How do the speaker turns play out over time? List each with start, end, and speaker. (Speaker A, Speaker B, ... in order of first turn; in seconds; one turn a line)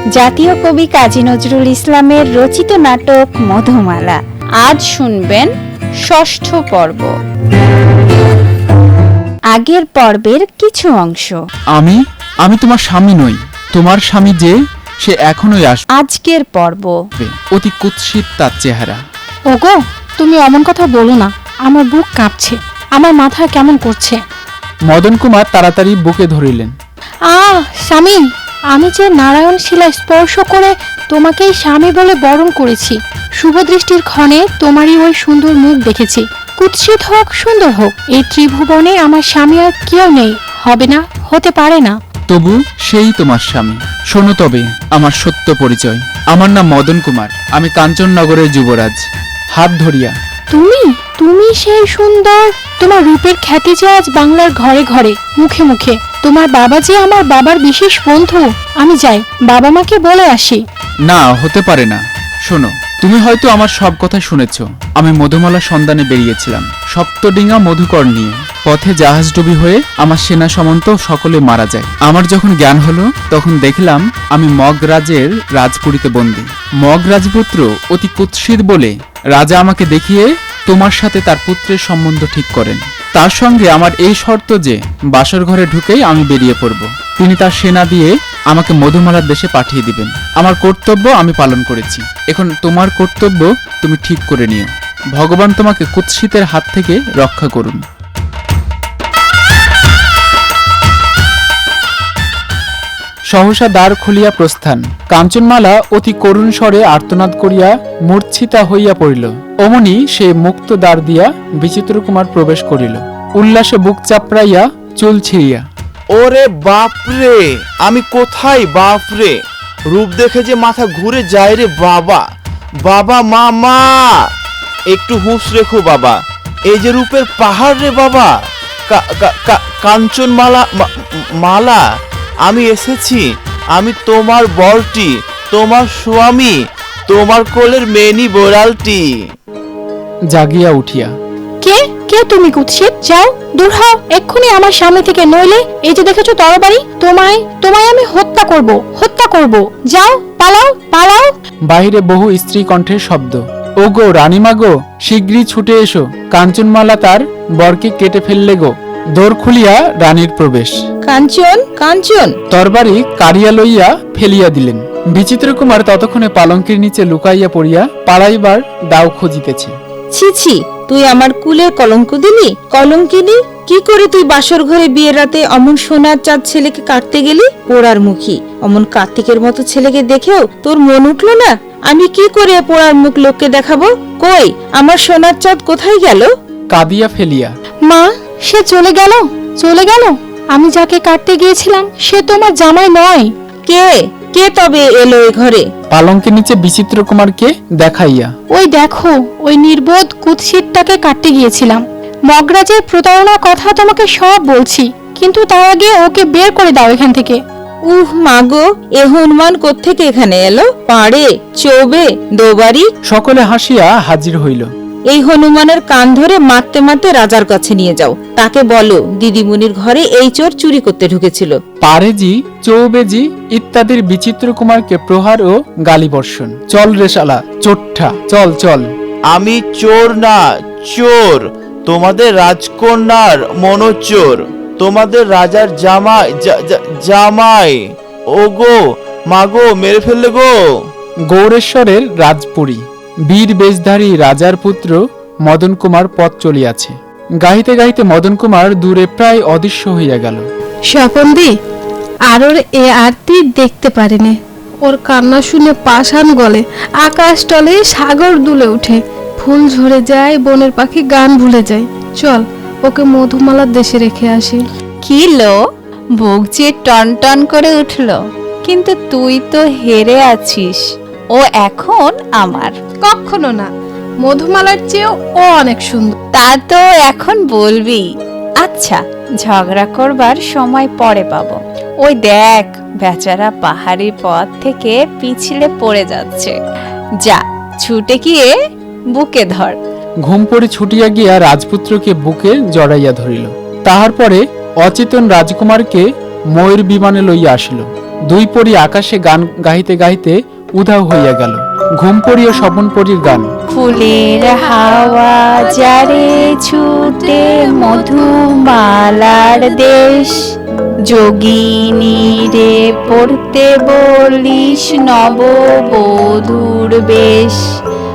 Speaker A: 0.2-5.5
Speaker A: 6.0-7.1
Speaker A: 9.5-11.4
Speaker B: 11.8-15.8
Speaker A: 16.0-17.0
Speaker B: 17.2-19.0
Speaker C: 19.5-24.2
Speaker B: 24.9-26.7
Speaker C: 27.3-42.0
Speaker B: 42.3-50.1
Speaker C: 50.5-60.6
Speaker B: 61.1-97.8
Speaker B: 103.3-115.7
Speaker D: 116.1-122.2
Speaker D: 122.8-124.3
Speaker D: 124.9-128.4
Speaker D: 128.9-131.8
Speaker D: 132.4-139.3
Speaker B: 140.3-141.1
Speaker C: 141.6-151.3
Speaker B: 151.7-160.8
Speaker E: 161.1-162.3
Speaker B: 162.5-169.8
Speaker E: 170.1-186.3
Speaker B: 186.7-187.5
Speaker C: 187.9-193.3
Speaker E: 193.7-195.7
Speaker B: 195.9-198.3
Speaker C: 198.5-207.4
Speaker E: 207.9-212.9
Speaker B: 213.1-214.7
Speaker E: 215.1-221.6
Speaker B: 221.8-228.9
Speaker D: 229.3-240.9
Speaker B: 241.3-250.4
Speaker F: 251.0-251.5
Speaker F: 252.3-264.6
Speaker A: 265.0-265.6
Speaker A: 266.2-270.8
Speaker A: 271.3-272.8
Speaker F: 273.0-273.7
Speaker F: 274.2-276.2
Speaker A: 276.4-278.1
Speaker A: 278.6-286.6
Speaker A: 287.2-288.5
Speaker A: 289.1-289.8
Speaker B: 290.2-303.5
Speaker A: 303.7-310.5
Speaker A: 311.1-317.6